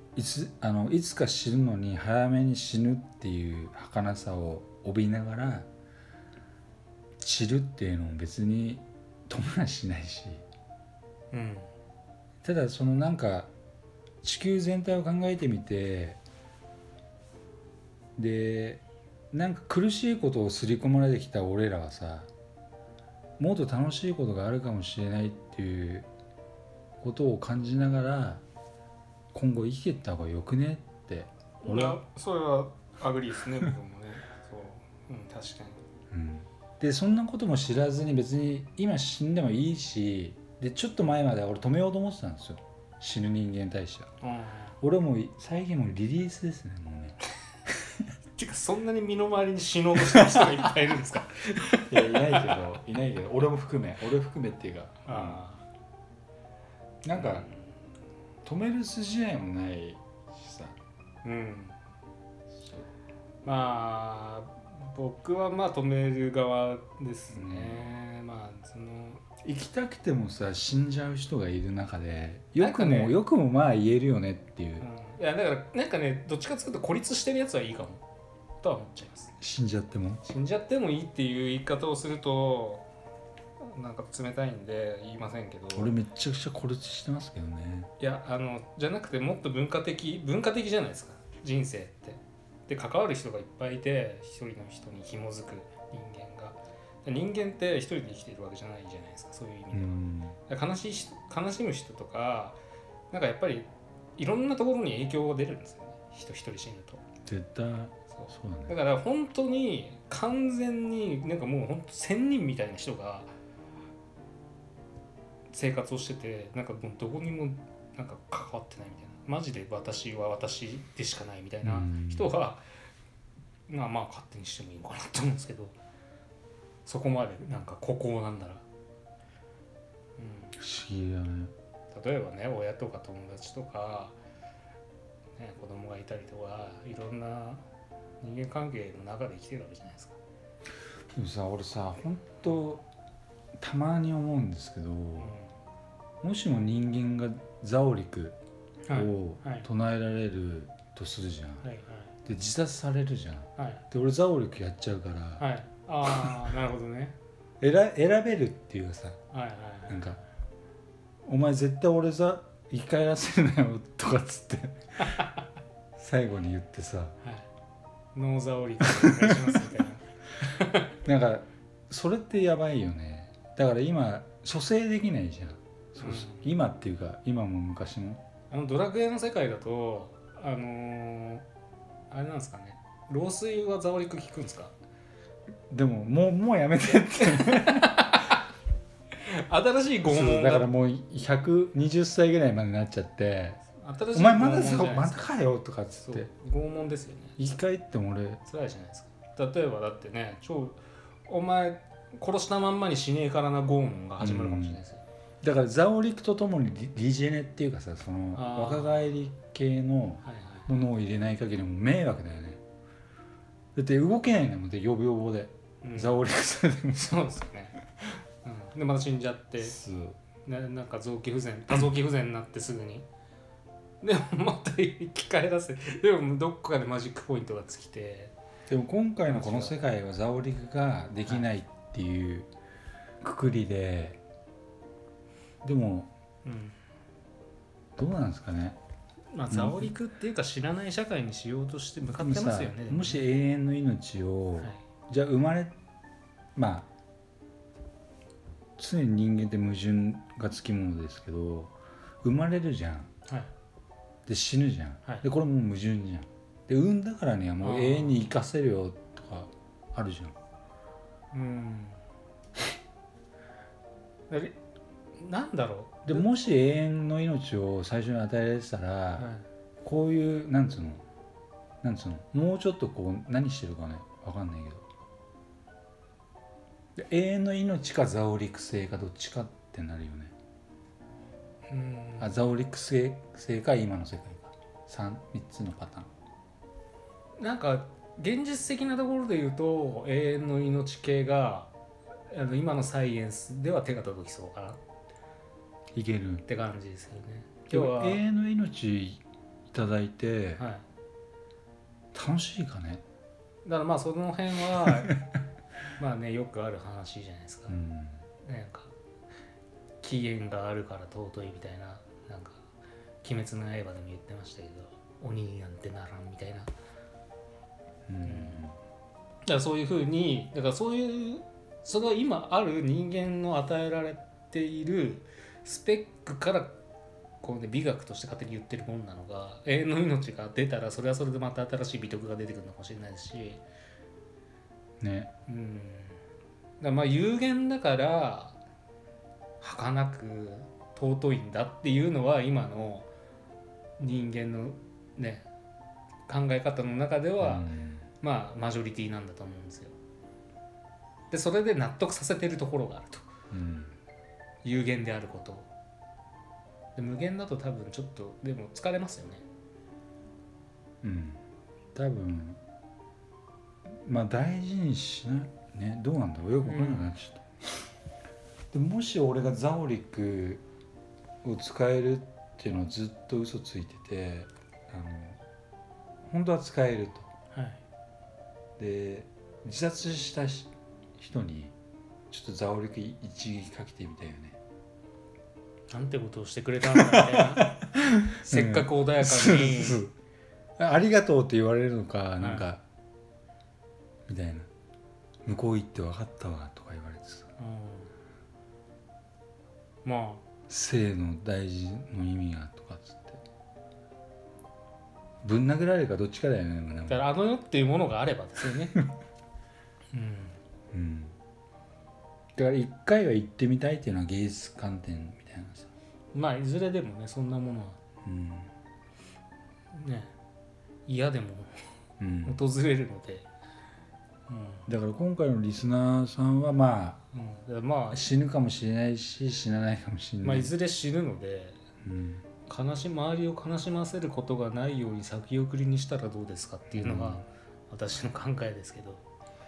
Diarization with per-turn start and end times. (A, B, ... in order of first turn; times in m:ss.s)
0:00.1-0:05.7 A
0:07.2-0:10.4 A
0:11.3-0:11.7 B
0:12.4-0:13.5 A
0:14.2-0:16.2 A
0:18.2-0:22.3 A
0:23.4-0:26.1 A
0:27.0-0:28.4 A
0:29.3-0:32.0 A
0:31.6-0:35.8 B
0:36.1-0:44.1 A
0:44.2-0:44.8 B
0:44.8-0:47.2 A
0:48.4-0:52.6 B
0:51.7-0:55.4 A
0:55.0-0:55.6 B
0:57.0-0:57.5 A
0:57.1-0:57.5 B
0:58.4-1:00.8 A
1:01.2-1:01.8 B
1:03.4-1:09.2 B
1:07.3-1:07.9 A
1:09.4-1:14.9 A
1:12.6-1:13.2 B
1:14.8-1:18.0 B
1:18.6-1:19.3 B
1:19.4-1:20.2 A
1:20.2-1:22.8 B
1:23.6-1:25.9 B
1:25.7-1:27.9 A
1:28.0-1:42.6 B
1:39.7-1:40.4 A
1:43.1-1:47.0 B
1:47.2-1:48.8 A
1:48.1-1:53.3 B
1:55.5-2:02.6 B
2:01.6-2:02.3 A
2:03.7-2:05.7 B
2:06.9-2:08.6 B
2:10.2-2:10.5 B
2:10.5-2:11.5 A
2:11.9-2:14.2 B
2:15.4-2:17.6 B
2:18.2-2:20.2 B
2:21.1-2:22.9 A
2:23.6-2:25.3 A
2:25.2-2:25.5 B
2:26.2-2:28.4 A
2:28.9-2:29.7 B
2:28.9-2:31.6 A
2:31.6-2:32.1 B
2:32.2-2:35.4 A
2:33.6-2:33.8 B
2:35.4-2:37.2 B
2:36.1-2:36.4 A
2:37.6-2:39.2 A
2:39.3-2:40.2 B
2:39.9-2:40.2 A
2:41.2-2:45.2 A
2:45.0-2:45.4 B
2:46.0-2:47.2 A
2:47.2-2:47.5 B
2:48.1-2:50.9 B
2:49.0-2:49.4 A
2:51.0-2:58.2 A
2:56.0-2:56.5 B
2:58.5-3:01.4 B
3:02.1-3:04.7 B
3:05.7-3:08.1 A
3:07.4-3:08.3 B
3:09.2-3:10.7 B
3:10.0-3:13.6 A
3:13.7-3:15.3 B
3:14.1-3:16.3 A
3:16.0-3:17.4 B
3:17.4-3:18.4 A
3:18.4-3:25.0 B
3:24.2-3:24.8 A
3:25.4-3:32.6 A
3:28.3-3:29.1 B
3:30.2-3:30.8 B
3:33.7-3:37.3 A
3:35.8-3:36.2 B
3:36.9-3:37.8 B
3:38.4-3:39.8 B
3:39.6-3:40.2 A
3:40.4-3:43.1 B
3:44.0-3:48.3 B
3:48.7-3:52.5 A
3:49.3-3:49.7 B
3:53.2-3:54.2 A
3:55.6-3:56.1 A
3:56.4-3:56.7 B
3:58.0-3:58.8 A
3:59.3-4:03.2 B
3:59.5-3:59.9 A
4:02.2-4:05.7 A
4:06.6-4:06.9 A
4:08.8-4:13.1 A
4:14.2-4:20.4 A
4:17.6-4:18.3 B
4:21.3-4:22.0 B
4:24.3-4:24.6 B
4:25.2-4:26.2 B
4:26.0-4:29.3 A
4:29.2-4:29.4 B
4:29.8-4:31.0 A
4:31.8-4:34.8 A
4:37.0-4:40.3 A
4:41.7-4:42.4 B
4:42.2-4:46.1 A
4:47.4-4:51.7 B
4:52.3-4:54.8 B
4:55.9-4:56.4 A
4:56.5-4:58.2 B
4:57.7-5:00.6 A
5:00.6-5:00.8 B
5:02.1-5:03.0 A
5:03.6-5:05.2 B
5:06.0-5:07.8 B
5:07.7-5:08.2 A
5:08.4-5:08.9 B
5:10.0-5:12.7 B
5:13.2-5:16.7 B
5:18.1-5:18.8 A
5:18.2-5:18.6 B
5:19.4-5:26.8 B
5:27.4-5:33.6 B
5:35.0-5:35.3 A
5:35.5-5:36.2 B
5:36.8-5:38.6 B
5:39.6-5:43.1 B
5:44.0-5:45.5 B
5:46.3-5:47.7 B
5:47.4-5:48.0 A
5:48.2-5:49.9 B
5:51.3-5:53.3 B
5:53.5-5:53.9 A
5:54.6-5:55.7 B
5:57.0-5:59.4 B
6:01.0-6:01.4 A
6:01.9-6:02.6 A
6:03.9-6:07.4 A
6:06.6-6:07.2 B
6:08.7-6:10.6 A
6:11.4-6:15.4 A
6:16.2-6:17.3 A
6:17.5-6:17.8 B
6:18.8-6:21.7 A
6:22.3-6:24.6 A
6:25.9-6:27.7 B
6:26.9-6:30.1 A
6:28.3-6:30.0 B
6:30.8-6:32.8 A
6:32.4-6:32.6 B
6:34.2-6:34.7 A
6:35.4-6:37.5 A
6:37.6-6:38.1 B
6:40.0-6:40.4 B
6:40.7-6:43.4 A
6:45.4-6:47.2 A
6:47.1-6:49.0 B
6:50.1-6:50.6 B
6:50.9-6:51.3 A
6:52.6-6:55.9 A
6:56.3-6:58.0 B
6:58.2-6:58.7 A
6:59.9-7:00.3 B
7:01.0-7:01.8 B
7:02.2-7:02.6 A
7:02.4-7:03.5 B
7:04.5-7:04.9 B
7:04.9-7:07.2 A
7:07.3-7:08.2 B
7:08.1-7:10.7 A
7:10.4-7:11.8 B
7:12.0-7:12.4 A
7:12.7-7:19.2 B
7:16.9-7:17.4 A